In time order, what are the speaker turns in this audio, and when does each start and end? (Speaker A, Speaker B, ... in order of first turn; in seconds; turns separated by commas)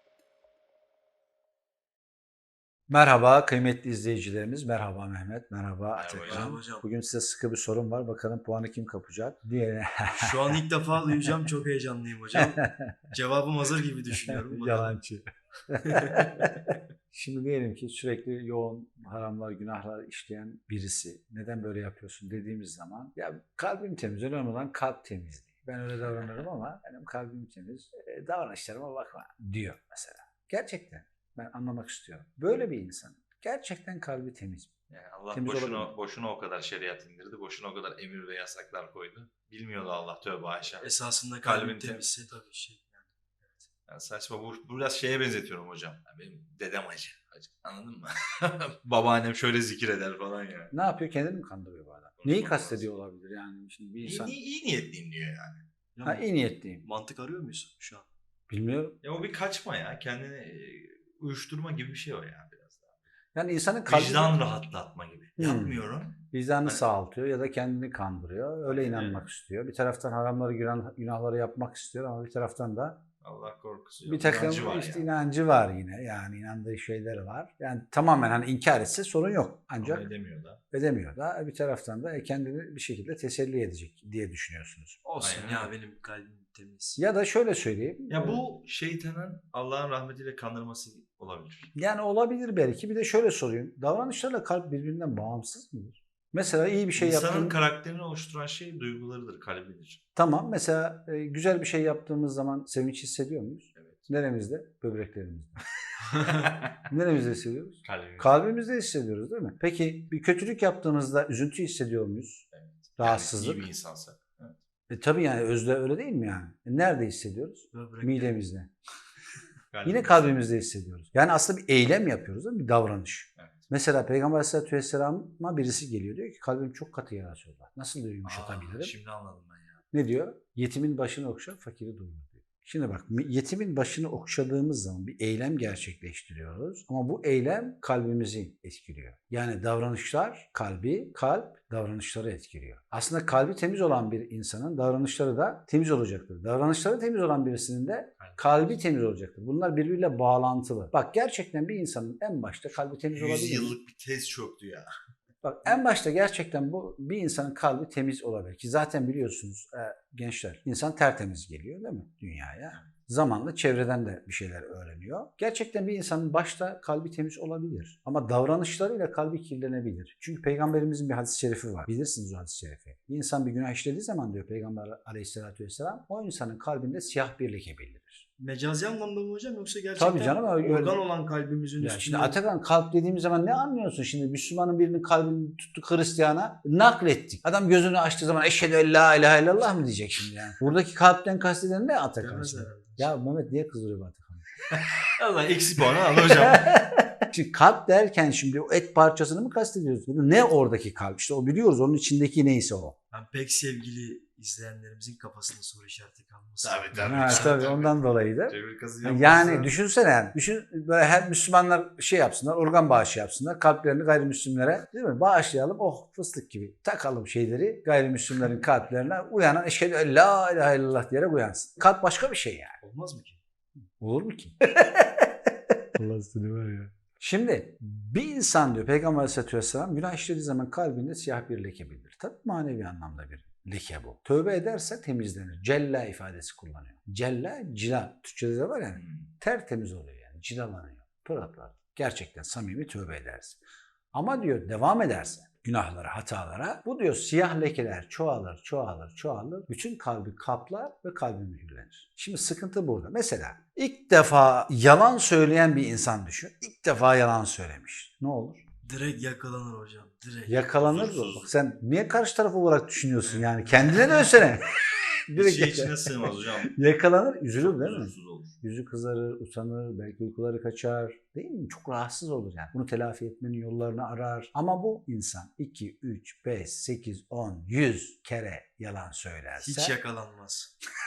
Speaker A: 2.9-10.6, Speaker B: 6.0-6.5, Speaker C: 6.2-6.8, Speaker C: 10.2-15.0, Speaker A: 12.3-12.9, Speaker A: 14.2-34.7, Speaker C: 15.8-16.3, Speaker B: 34.9-40.9, Speaker A: 35.3-35.9, Speaker C: 40.8-43.7, Speaker B: 41.4-42.1, Speaker B: 43.9-50.7, Speaker A: 50.7-54.4, Speaker B: 52.2-52.9, Speaker B: 54.0-55.6, Speaker C: 56.0-56.3, Speaker A: 56.0-56.8, Speaker C: 56.8-58.1, Speaker A: 58.5-59.0, Speaker B: 59.0-63.0, Speaker A: 63.4-64.4, Speaker B: 63.9-66.8, Speaker A: 65.4-65.8, Speaker A: 66.3-73.0, Speaker B: 68.7-69.3, Speaker B: 73.2-75.1, Speaker A: 74.1-80.1, Speaker B: 79.8-80.6, Speaker A: 80.7-85.0, Speaker C: 85.0-87.0, Speaker B: 85.2-85.7, Speaker A: 87.0-88.4, Speaker B: 88.1-91.7, Speaker A: 91.8-97.6, Speaker B: 97.0-100.0, Speaker A: 100.2-105.6, Speaker B: 103.8-104.1, Speaker B: 106.2-106.8, Speaker A: 106.9-112.5, Speaker B: 107.8-108.5, Speaker B: 112.5-114.6, Speaker A: 113.0-113.7, Speaker A: 114.9-118.7, Speaker C: 117.7-118.4, Speaker B: 119.7-120.4, Speaker A: 119.8-128.9, Speaker B: 123.4-123.6, Speaker B: 128.2-129.8, Speaker A: 129.9-153.7, Speaker B: 148.2-148.8, Speaker B: 153.1-154.9, Speaker A: 155.4-178.2, Speaker C: 178.4-182.4, Speaker A: 180.0-181.0, Speaker A: 181.8-194.5, Speaker C: 192.2-193.1, Speaker B: 194.7-196.8, Speaker C: 195.8-196.2, Speaker A: 196.5-202.9, Speaker C: 203.1-207.7, Speaker B: 206.6-209.7, Speaker A: 207.0-222.8, Speaker C: 222.8-223.4, Speaker A: 224.0-225.3, Speaker A: 225.9-243.6, Speaker B: 238.9-239.3, Speaker A: 244.1-258.6, Speaker C: 258.8-260.7, Speaker A: 260.5-264.8, Speaker B: 260.8-261.5, Speaker A: 265.3-280.0, Speaker B: 265.3-266.7, Speaker B: 267.6-268.6, Speaker C: 279.6-280.7